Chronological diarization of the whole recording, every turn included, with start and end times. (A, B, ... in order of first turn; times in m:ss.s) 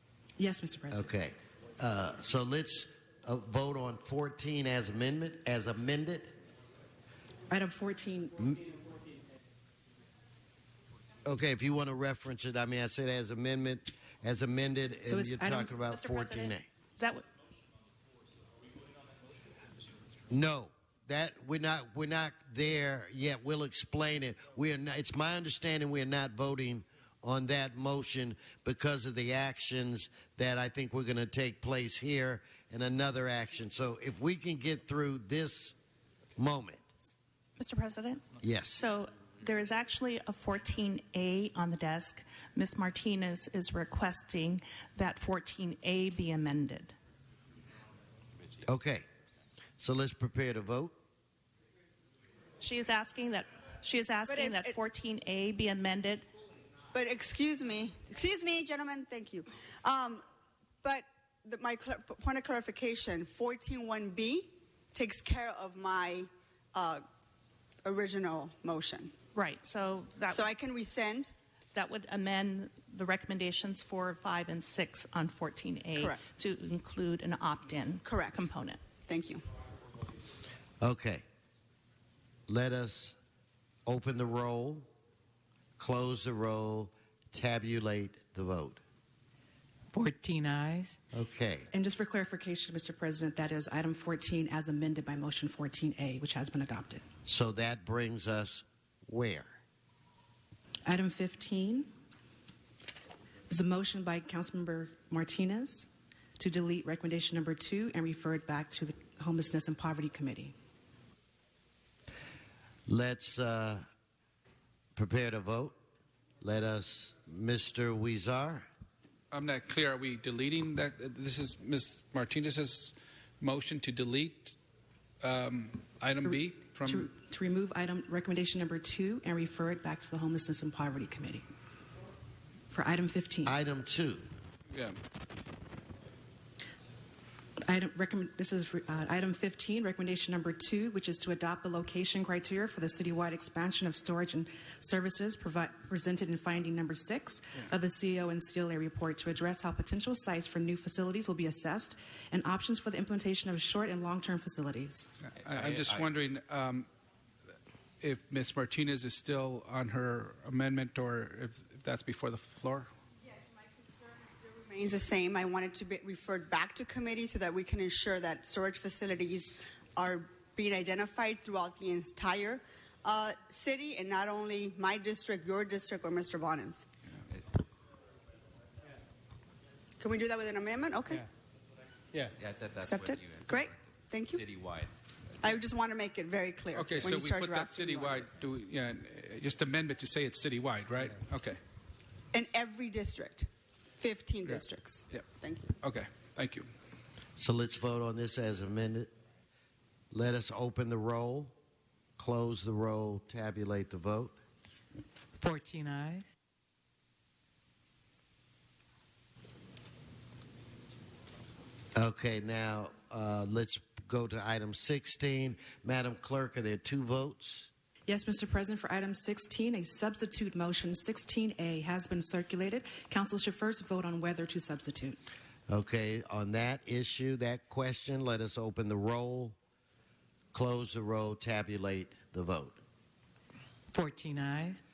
0:00.4-0:01.1 A
0:00.9-0:06.3 B
0:07.5-0:08.6 A
0:11.3-0:16.7 B
0:15.1-0:15.7 A
0:15.9-0:17.2 C
0:20.3-0:35.8 B
0:36.4-0:36.8 B
0:37.6-0:46.9 C
0:38.4-0:38.8 B
0:48.6-0:49.1 B
0:49.8-0:50.9 B
0:52.6-0:56.3 C
0:54.3-0:54.8 D
0:56.9-1:00.2 D
1:00.8-1:07.0 D
1:07.8-1:09.1 D
1:09.3-1:10.5 C
1:10.3-1:11.3 D
1:11.7-1:18.8 C
1:16.0-1:16.2 D
1:18.0-1:18.5 D
1:19.0-1:19.4 D
1:20.8-1:21.2 B
1:22.5-1:23.2 B
1:23.9-1:24.9 B
1:25.8-1:28.8 B
1:29.9-1:31.0 E
1:31.1-1:31.7 B
1:31.7-1:37.0 A
1:37.3-1:39.6 B
1:40.9-1:41.9 A
1:43.5-1:45.9 A
1:46.4-1:50.5 A
1:52.9-1:53.8 B
1:55.0-1:55.7 B
1:56.4-1:58.7 B
1:59.3-2:04.6 F
2:05.2-2:07.1 F
2:06.2-2:11.4 A
2:12.7-2:13.5 A
2:13.5-2:14.3 B
2:17.7-2:35.1 A
2:35.4-2:36.9 F
2:35.6-2:36.0 G
2:38.0-2:42.9 F
2:43.3-2:56.9 D
3:00.0-3:01.3 D
3:02.4-3:03.8 G
3:02.8-3:04.5 D
3:04.3-3:04.9 G
3:05.4-3:08.3 D
3:06.8-3:11.6 F
3:12.3-3:15.8 D
3:15.8-3:16.7 F
3:17.4-3:19.1 B
3:20.1-3:21.5 B
3:22.2-3:24.4 B
3:25.4-3:26.3 E
3:32.0-3:37.7 B
3:38.1-3:45.2 A
3:45.7-3:49.6 B
3:50.5-3:52.8 B
3:53.9-3:54.8 E